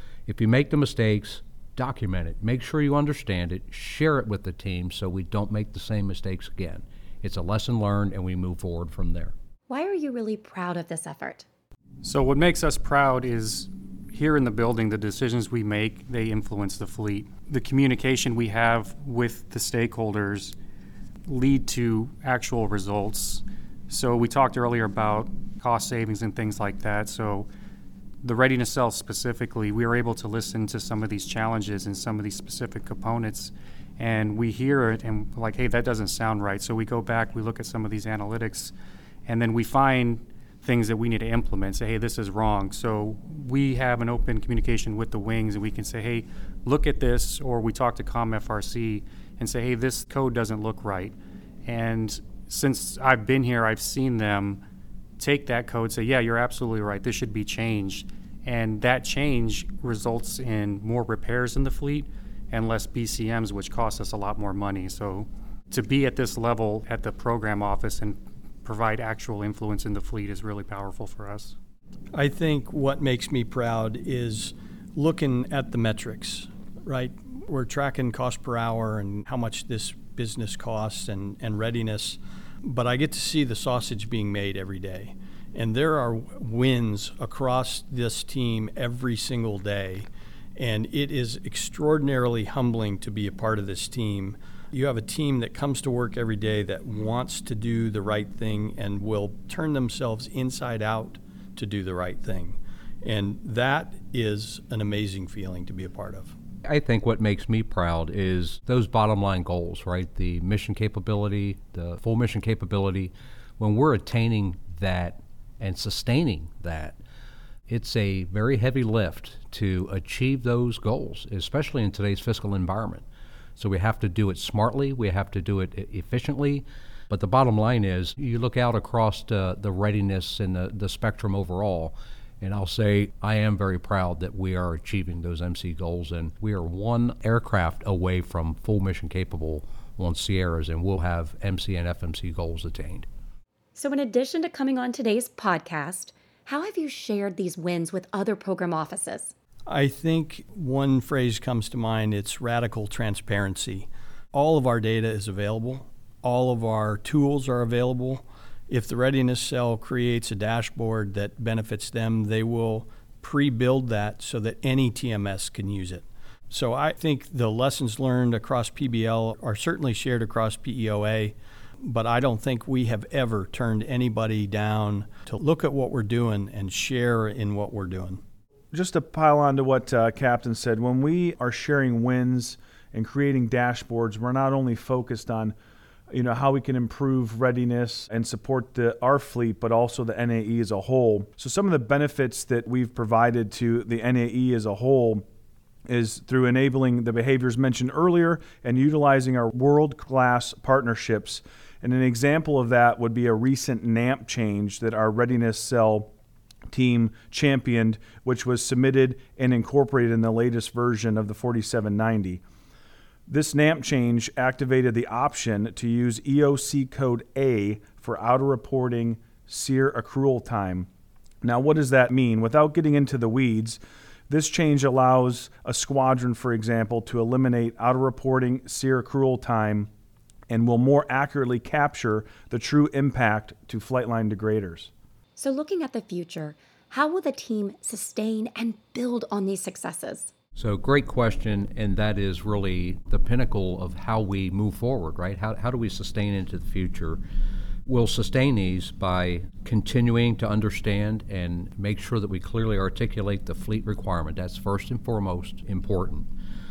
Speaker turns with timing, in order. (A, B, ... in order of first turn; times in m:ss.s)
0:00.3-0:09.3 A
0:09.7-0:11.4 B
0:12.0-0:20.5 C
0:21.3-0:27.5 C
0:28.2-0:38.7 C
0:39.2-0:54.6 C
0:55.2-1:11.5 C
1:12.1-1:30.0 D
1:30.6-1:46.3 D
1:46.6-1:57.0 A
1:57.7-2:23.1 A
2:23.7-2:29.3 B
2:29.7-2:58.2 D
2:58.7-3:05.5 E
3:06.1-3:15.2 E
3:15.9-3:26.1 E
3:26.7-3:32.4 E
3:33.3-3:40.9 E
3:41.4-3:49.9 E
3:50.5-3:54.9 E
3:55.4-4:00.3 B
4:00.6-4:07.2 A
4:07.9-4:16.3 A